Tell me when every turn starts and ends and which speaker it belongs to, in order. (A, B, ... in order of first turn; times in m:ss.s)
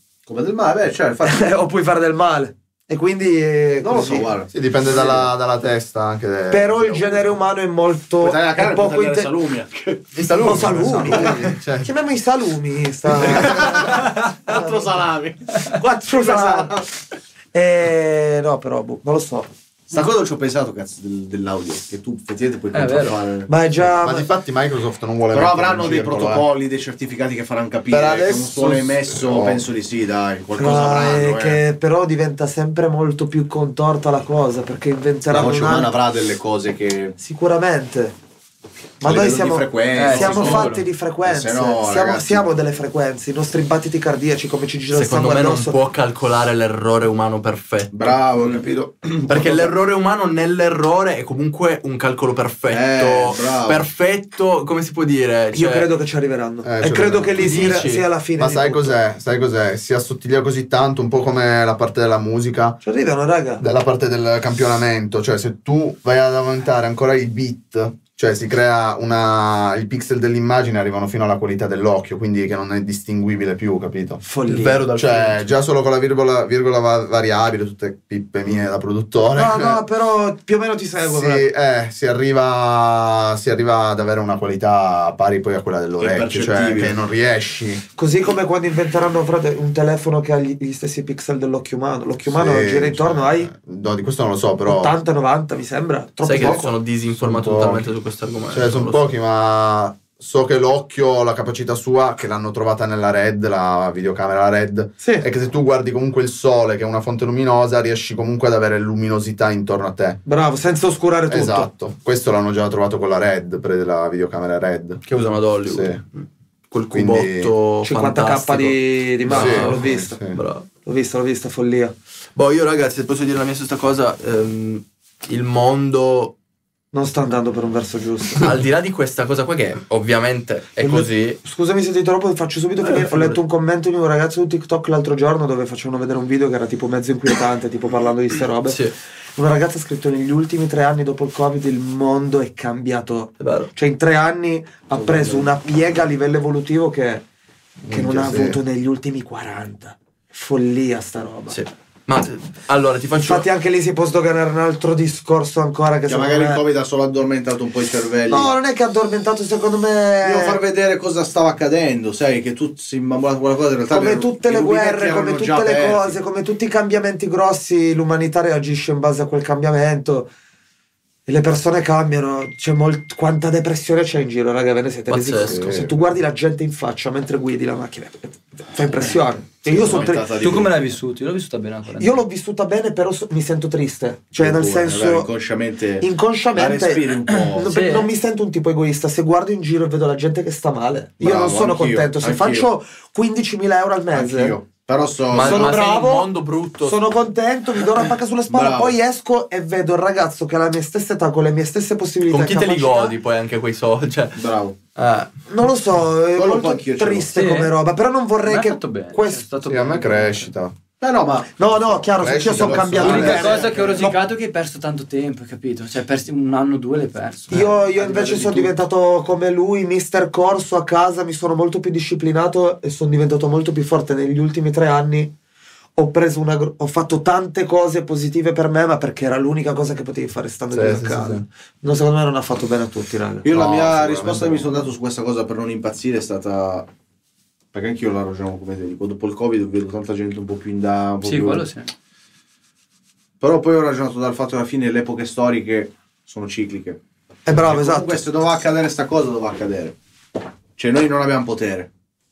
0:00.3-0:01.5 A
0:01.2-0:04.3 B
0:03.8-0:05.3 A
0:04.5-0:07.3 C
0:06.5-0:09.3 B
0:08.2-0:10.1 A
0:10.2-0:11.9 C
0:10.3-0:15.0 B
0:13.2-0:16.9 A
0:15.6-0:16.7 B
0:17.5-0:19.5 B
0:19.9-0:23.5 A
0:22.7-0:23.2 D
0:23.5-0:24.3 B
0:23.9-0:26.5 C
0:25.3-0:31.6 A
0:27.9-0:29.6 C
0:30.6-0:36.0 B
0:35.3-0:37.2 A
0:37.2-0:38.2 B
0:39.0-0:45.8 B
0:39.0-0:42.5 A
0:40.0-0:40.8 D
0:44.9-0:48.5 E
0:47.9-0:49.8 A
0:49.3-0:55.9 E
0:52.7-0:53.9 A
0:55.5-0:59.0 B
0:56.6-0:57.8 C
0:57.4-0:58.0 E
0:58.4-1:02.8 C
1:02.8-1:03.6 B
1:03.6-1:14.2 C
1:14.2-1:14.9 B
1:14.5-1:15.4 E
1:14.9-1:19.8 C
1:19.3-1:21.5 B
1:21.1-1:27.8 C
1:26.0-1:27.0 A
1:28.0-1:33.5 B
1:32.3-1:35.0 C
1:34.6-1:36.7 B
1:36.2-1:39.1 E
1:36.4-1:36.7 C
1:37.2-1:37.9 C
1:38.5-1:50.2 C
1:45.0-1:45.3 B
1:50.3-1:51.7 B
1:51.3-1:55.0 C
1:55.0-2:00.7 E
1:55.7-1:56.0 C
1:56.9-1:57.5 C
1:57.8-2:00.2 B
1:59.3-2:00.4 C
2:00.9-2:01.9 B
2:02.4-2:06.3 E
2:06.9-2:08.6 B
2:08.4-2:11.4 E
2:10.8-2:18.8 B
2:12.8-2:13.4 E
2:18.7-2:18.9 E
2:19.4-2:27.2 B
2:23.4-2:23.7 E
2:25.0-2:25.5 A
2:27.8-2:28.6 C
2:27.9-2:31.6 B
2:31.5-2:33.5 E
2:33.2-2:36.6 B
2:36.1-2:38.5 A
2:38.3-2:40.6 B
2:40.2-2:46.2 A
2:43.9-2:50.3 B
2:51.3-3:00.3 B
2:55.1-2:55.6 E
2:55.5-2:55.9 C
2:59.7-3:00.8 A
3:00.0-3:02.2 D
3:02.0-3:05.3 B
3:04.4-3:07.8 A
3:06.0-3:14.6 B
3:07.7-3:08.1 D
3:11.2-3:12.7 A
3:14.1-3:15.8 A
3:15.3-3:17.0 E
3:15.4-3:23.2 B
3:18.5-3:19.0 A
3:22.3-3:24.4 E
3:24.4-3:24.8 A
3:25.0-3:25.3 E
3:25.5-3:29.5 B
3:26.3-3:27.4 A
3:27.3-3:27.7 D
3:28.4-3:30.5 D
3:29.7-3:30.8 C
3:31.0-3:31.6 A
3:31.6-3:34.2 B
3:32.1-3:33.6 C
3:32.5-3:34.2 A
3:33.0-3:38.7 D
3:37.5-3:45.3 B
3:46.0-3:53.5 B
3:50.7-3:51.4 C
3:53.4-3:56.9 A
3:53.5-3:54.7 C
3:57.7-4:01.7 A
4:01.2-4:01.9 D
4:03.4-4:10.0 A
4:07.5-4:08.2 B
4:10.8-4:11.9 A